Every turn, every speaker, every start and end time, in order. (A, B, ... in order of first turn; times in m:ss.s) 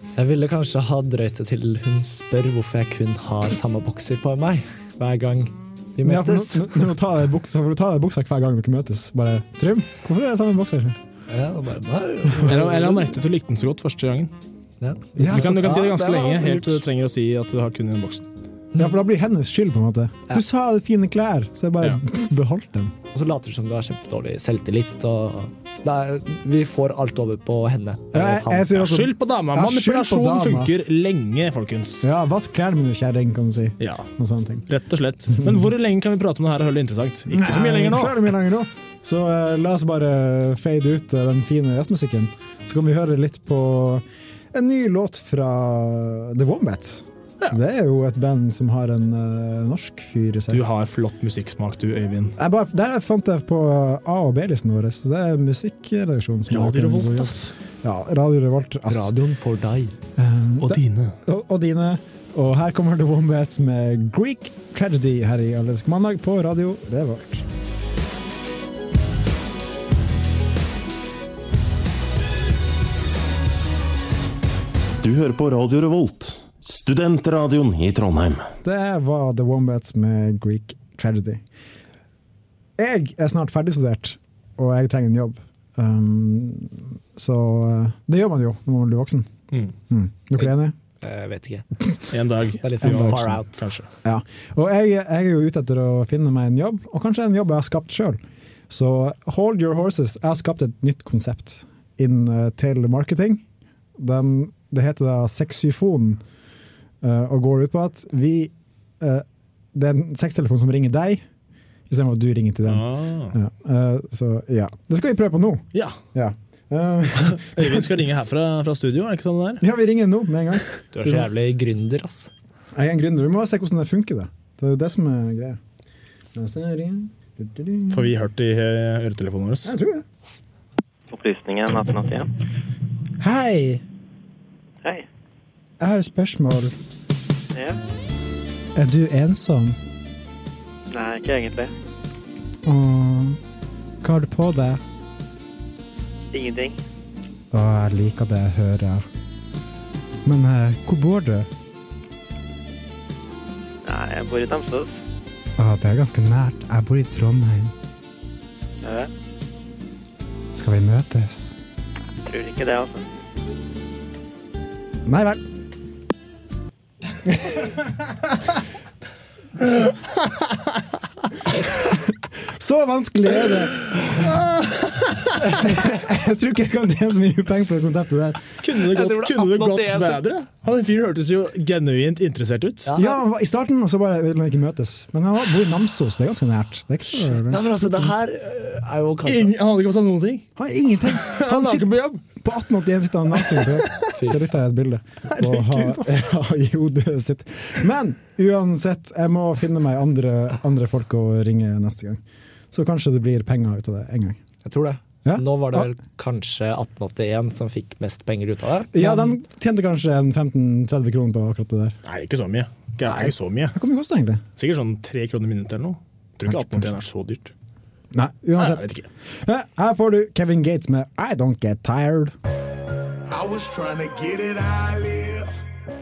0:00.2-0:06.8 A
0:06.0-0:11.0 B
0:11.3-0:13.0 A
0:12.4-0:14.3 C
0:14.8-0:16.8 A
0:15.2-0:15.8 B
0:15.2-0:18.2 C
0:18.8-0:22.9 B
0:23.1-0:28.7 A
0:28.1-0:30.7 B
0:28.7-0:32.0 C
0:32.0-0:34.6 B
0:33.8-0:34.1 C
0:34.7-0:38.3 C
0:37.3-0:50.6 B
0:50.5-0:52.3 C
0:52.4-0:59.1 B
0:56.5-0:57.5 C
0:58.9-0:59.9 A
1:00.2-1:07.4 B
1:00.6-1:01.1 C
1:15.0-1:18.5 D
1:18.6-1:21.4 B
1:22.8-1:29.3 B
1:29.9-1:30.7 B
1:31.0-1:31.7 A
1:32.1-1:33.9 C
1:32.6-1:33.6 A
1:34.0-1:38.2 B
1:38.7-1:43.4 B
1:44.0-1:46.2 B
1:47.0-1:51.2 B
1:51.9-1:57.9 B
1:52.6-1:53.3 C
1:57.2-1:59.6 C
1:59.6-2:00.6 B
2:00.9-2:02.3 A
2:01.0-2:01.2 C
2:02.7-2:05.6 B
2:06.3-2:08.1 B
2:07.9-2:09.7 C
2:09.6-2:10.0 B
2:11.1-2:12.3 E
2:13.2-2:13.8 B
2:15.8-2:16.7 B
2:17.5-2:17.8 E
2:18.8-2:19.8 B
2:20.9-2:21.7 E
2:22.6-2:23.4 B
2:24.0-2:24.8 B
2:26.3-2:26.8 E
2:27.5-2:29.0 B
2:30.2-2:31.5 B
2:33.8-2:34.9 E
2:35.6-2:37.7 B
2:38.8-2:39.1 E
2:40.5-2:41.5 B
2:42.2-2:43.0 E
2:45.0-2:45.4 B
2:47.3-2:47.7 B
2:51.8-2:53.8 B
2:55.4-2:58.4 B
2:58.6-3:02.9 C
2:58.9-3:00.2 A
3:02.9-3:03.2 A
3:03.0-3:07.9 B
3:07.3-3:09.5 A
3:09.2-3:10.4 C
3:10.6-3:22.2 B
3:11.1-3:12.2 C
3:14.1-3:14.4 A
3:15.4-3:16.0 C
3:22.7-3:24.4 B
3:24.6-3:29.4 A
3:25.2-3:25.9 B
3:28.9-3:32.0 B
3:32.0-3:33.8 C
3:33.0-3:34.4 B
3:34.6-3:37.5 C
3:36.4-3:36.9 B
3:38.1-3:38.9 B
3:38.6-3:39.0 C
3:39.4-3:42.4 B
3:43.3-3:45.4 F